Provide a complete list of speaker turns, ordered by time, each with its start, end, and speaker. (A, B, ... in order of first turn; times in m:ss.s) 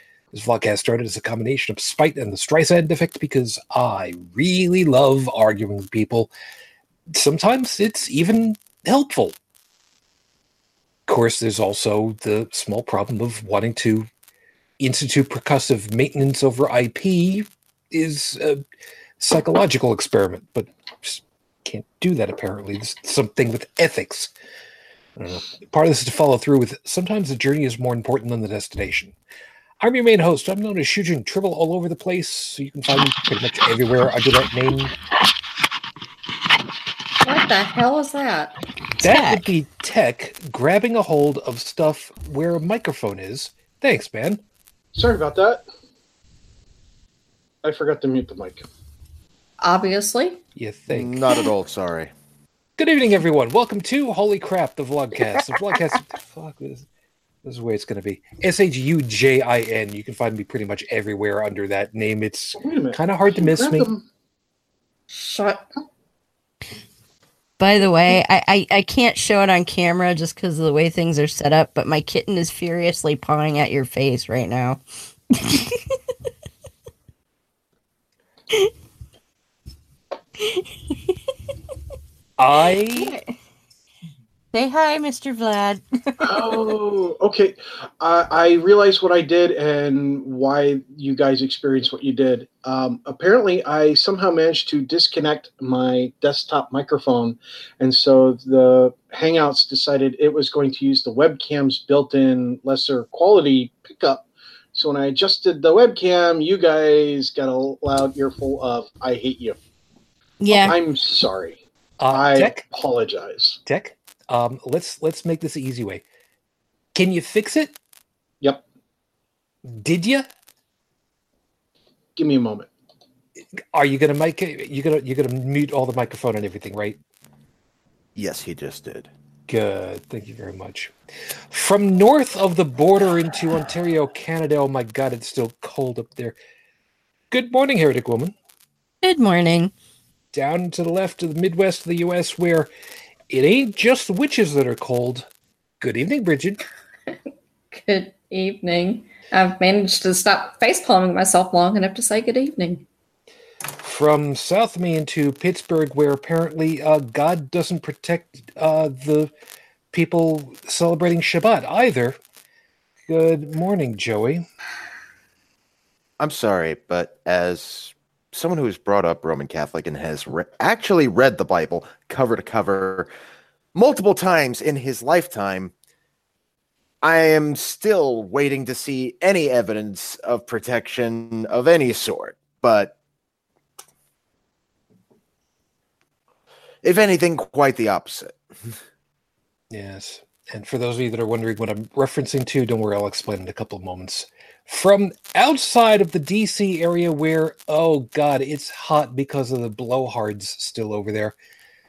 0:00.3-0:06.3 A
0:07.1-0:09.4 A
0:11.1-0:14.1 A
0:14.8-0:18.6 A
0:19.2-0:24.3 A
0:25.2-0:29.1 A
0:29.8-0:34.9 A
0:37.2-0:38.5 B
0:39.0-0:39.4 C
0:39.0-0:44.4 A
0:44.9-0:45.6 D
0:47.6-0:48.6 D
0:49.6-0:50.4 B
0:50.6-0:51.2 A
0:50.9-0:52.1 E
0:52.8-0:56.8 A
0:57.4-1:03.9 A
1:02.6-1:04.0 D
1:05.1-1:05.7 B
1:07.6-1:14.8 C
1:15.3-1:15.8 C
1:22.4-1:23.1 A
1:22.9-1:23.2 C
1:24.5-1:26.5 C
1:26.2-1:49.6 D
1:50.4-1:50.8 C
1:50.5-1:51.6 D
1:52.0-1:52.6 A
1:52.1-1:53.6 D
1:53.6-1:56.0 A
1:56.9-1:57.7 A
1:59.6-2:00.3 A
2:02.2-2:02.7 D
2:03.7-2:07.0 A
2:08.2-2:09.1 E
2:09.5-2:10.9 A
2:11.5-2:16.4 A
2:17.3-2:18.3 A
2:19.0-2:19.7 C
2:20.3-2:22.7 A
2:23.3-2:25.3 A
2:25.8-2:26.6 A
2:27.7-2:32.8 B
2:33.8-2:39.3 A
2:39.9-2:42.2 A
2:43.1-2:44.4 A
2:46.2-2:53.1 E
2:53.7-2:55.7 E
2:57.0-3:02.9 E
3:06.8-3:08.4 E
3:09.7-3:21.4 A